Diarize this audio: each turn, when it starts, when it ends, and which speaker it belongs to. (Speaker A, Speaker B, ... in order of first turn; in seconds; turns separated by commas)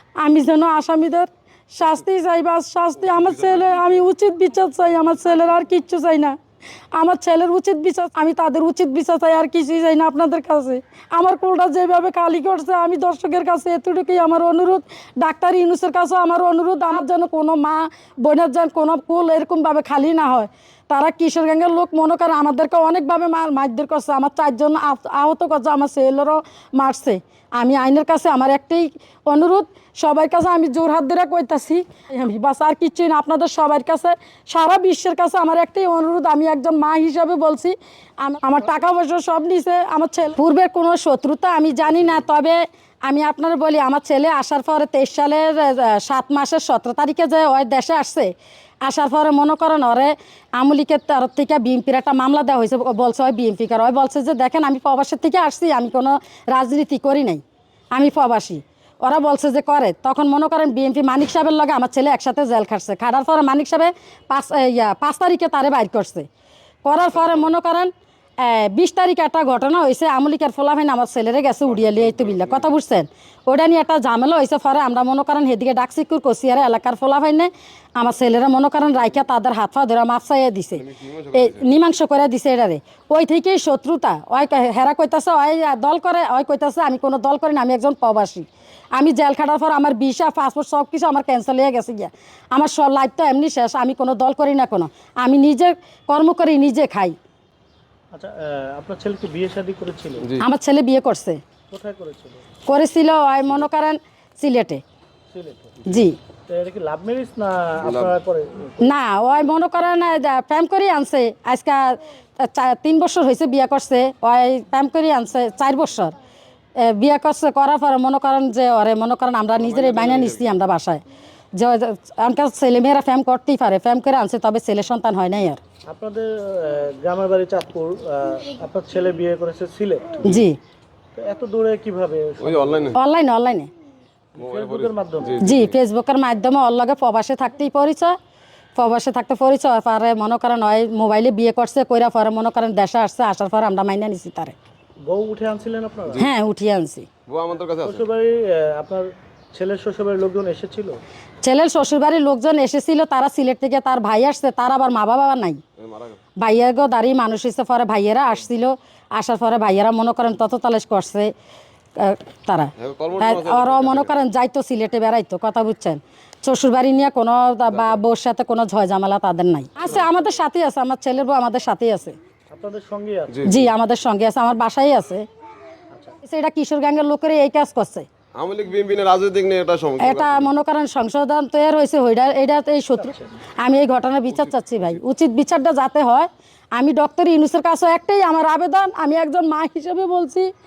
Speaker A: 0.2-6.3, Speaker B: 3.1-3.8, Speaker A: 6.9-66.3, Speaker A: 66.8-97.2, Speaker B: 71.8-72.5, Speaker B: 80.8-81.7, Speaker C: 98.1-100.3, Speaker A: 100.4-101.4, Speaker C: 101.7-102.4, Speaker A: 102.7-104.8, Speaker C: 105.3-105.8, Speaker A: 105.8-106.2, Speaker C: 106.5-108.9, Speaker B: 107.8-108.1, Speaker A: 108.8-116.1, Speaker A: 116.8-121.0, Speaker B: 119.5-120.5, Speaker A: 121.5-125.6, Speaker C: 125.9-130.2, Speaker A: 130.2-130.6, Speaker C: 131.2-132.9, Speaker B: 132.4-133.0, Speaker A: 132.9-133.7, Speaker C: 134.4-135.4, Speaker B: 134.4-135.7, Speaker A: 135.4-138.1, Speaker A: 138.8-144.6, Speaker C: 145.0-146.3, Speaker A: 146.1-147.1, Speaker B: 147.3-148.1, Speaker C: 147.8-151.0, Speaker A: 151.4-155.6, Speaker B: 155.8-156.2, Speaker A: 156.4-161.3, Speaker A: 162.0-172.2, Speaker B: 162.8-164.1, Speaker B: 167.7-168.0, Speaker C: 172.5-173.4, Speaker B: 173.3-173.7, Speaker A: 173.4-175.2, Speaker A: 176.2-178.1, Speaker B: 178.3-180.5, Speaker A: 180.0-190.5